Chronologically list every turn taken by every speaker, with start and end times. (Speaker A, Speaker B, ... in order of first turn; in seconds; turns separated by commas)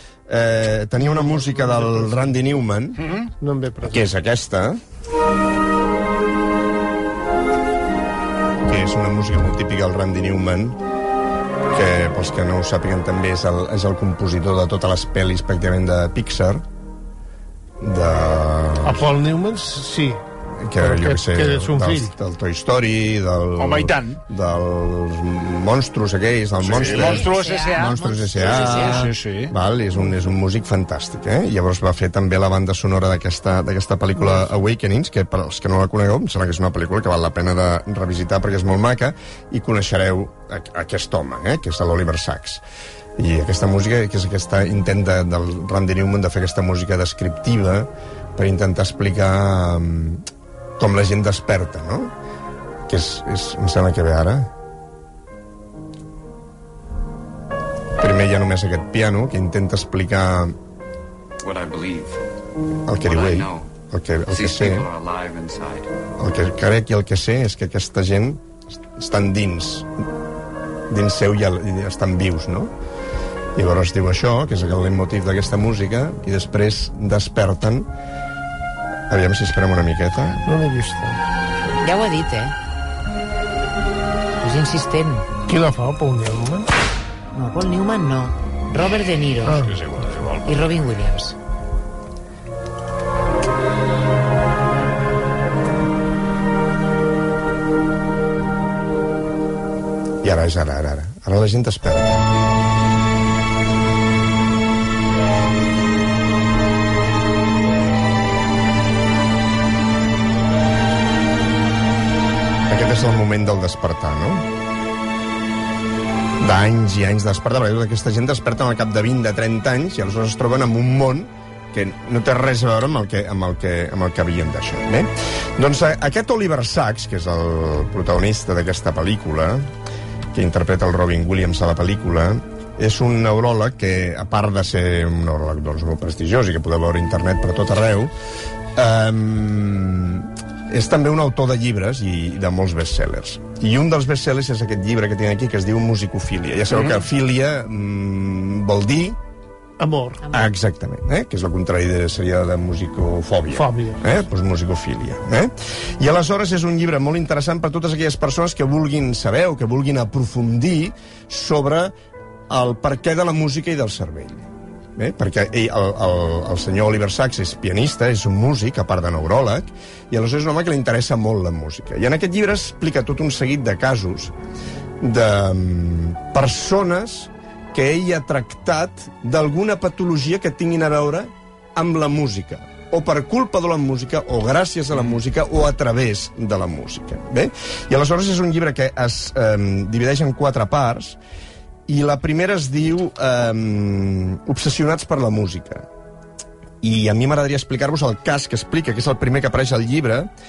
Speaker A: 0.3-3.0, Speaker B: 1.1-2.3, Speaker C: 3.0-3.3, Speaker B: 3.4-4.0, Speaker A: 3.8-4.8, Speaker A: 8.7-10.8, Speaker A: 11.7-16.6, Speaker A: 17.8-19.1, Speaker B: 18.8-20.2, Speaker A: 20.6-42.6, Speaker B: 20.8-22.1, Speaker C: 23.6-24.2, Speaker C: 26.6-29.5, Speaker D: 26.8-29.1, Speaker A: 43.2-50.2, Speaker A: 50.8-52.1, Speaker A: 52.9-54.5, Speaker A: 58.0-60.6, Speaker E: 61.4-62.2, Speaker A: 62.9-64.9, Speaker E: 63.0-65.9, Speaker A: 66.2-68.4, Speaker A: 69.0-69.9, Speaker A: 70.9-72.7, Speaker A: 73.5-77.9, Speaker A: 79.1-80.4, Speaker B: 80.4-81.2, Speaker D: 81.8-82.5, Speaker D: 84.4-85.2, Speaker B: 85.5-86.7, Speaker D: 87.3-89.7, Speaker B: 89.4-89.8, Speaker C: 89.5-90.7, Speaker D: 90.4-91.3, Speaker A: 100.2-102.3, Speaker A: 112.7-114.5, Speaker A: 116.4-129.7, Speaker A: 130.3-138.1, Speaker A: 138.8-149.2, Speaker C: 146.7-147.0, Speaker B: 149.8-150.2, Speaker A: 150.3-161.9, Speaker B: 153.5-154.1, Speaker A: 162.5-174.3, Speaker A: 175.0-191.2, Speaker A: 191.9-195.9, Speaker A: 196.8-200.3